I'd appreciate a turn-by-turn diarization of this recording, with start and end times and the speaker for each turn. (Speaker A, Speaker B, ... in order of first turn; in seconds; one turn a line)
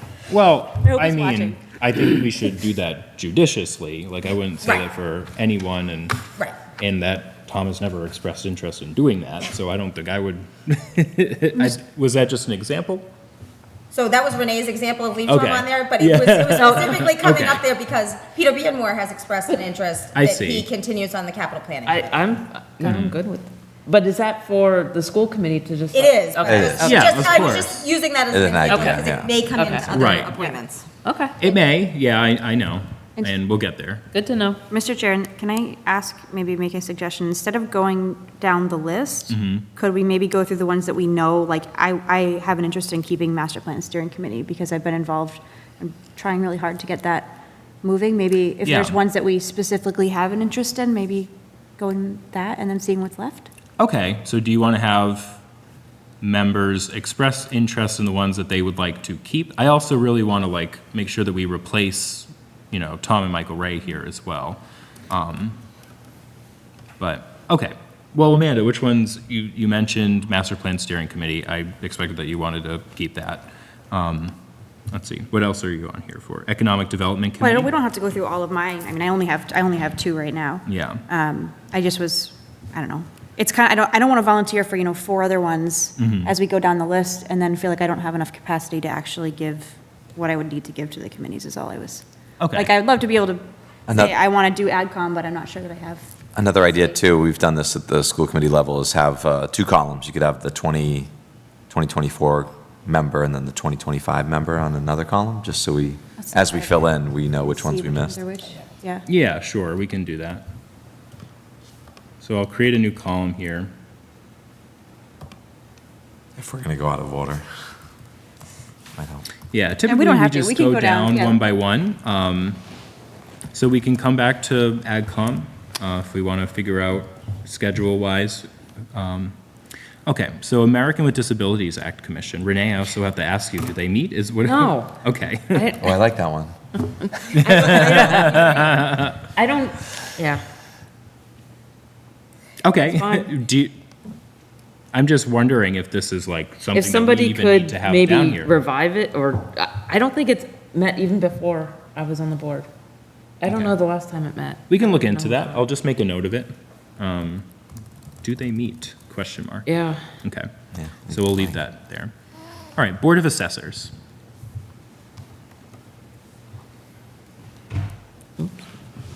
Speaker A: 0.3-6.2
Speaker B: 0.8-1.6
Speaker A: 6.8-13.1
Speaker C: 13.9-22.1
Speaker A: 15.2-17.6
Speaker D: 16.7-16.9
Speaker A: 20.1-20.7
Speaker D: 21.8-27.1
Speaker A: 22.8-23.1
Speaker C: 25.9-30.9
Speaker E: 26.5-27.2
Speaker A: 26.8-27.8
Speaker E: 28.3-29.4
Speaker D: 29.5-31.3
Speaker A: 29.9-30.3
Speaker A: 31.4-34.0
Speaker D: 34.1-34.6
Speaker B: 34.7-53.5
Speaker A: 39.3-39.6
Speaker A: 48.6-49.0
Speaker A: 53.8-55.4
Speaker A: 56.2-65.6
Speaker A: 67.0-74.3
Speaker A: 74.9-77.7
Speaker B: 77.4-97.0
Speaker A: 80.7-81.0
Speaker A: 86.0-86.3
Speaker A: 92.4-92.7
Speaker E: 93.9-94.1
Speaker E: 96.3-101.1
Speaker E: 101.7-108.2
Speaker B: 106.2-109.0
Speaker A: 109.0-110.4
Speaker A: 112.2-113.7
Speaker E: 116.4-117.4
Speaker E: 119.0-119.3
Speaker A: 119.5-122.6
Speaker B: 119.8-121.4
Speaker A: 123.5-129.3
Speaker A: 130.1-135.8
Speaker D: 134.4-136.1
Speaker E: 135.8-136.5
Speaker D: 137.1-140.4
Speaker A: 137.3-139.2
Speaker A: 142.6-143.7
Speaker D: 142.7-143.3
Speaker A: 144.9-148.6
Speaker D: 146.7-152.7
Speaker D: 153.4-155.7
Speaker A: 153.4-153.7
Speaker A: 154.7-157.4
Speaker A: 158.2-159.7
Speaker D: 159.7-160.1
Speaker A: 160.2-160.5
Speaker E: 160.7-161.6
Speaker A: 161.1-162.1
Speaker A: 162.8-163.9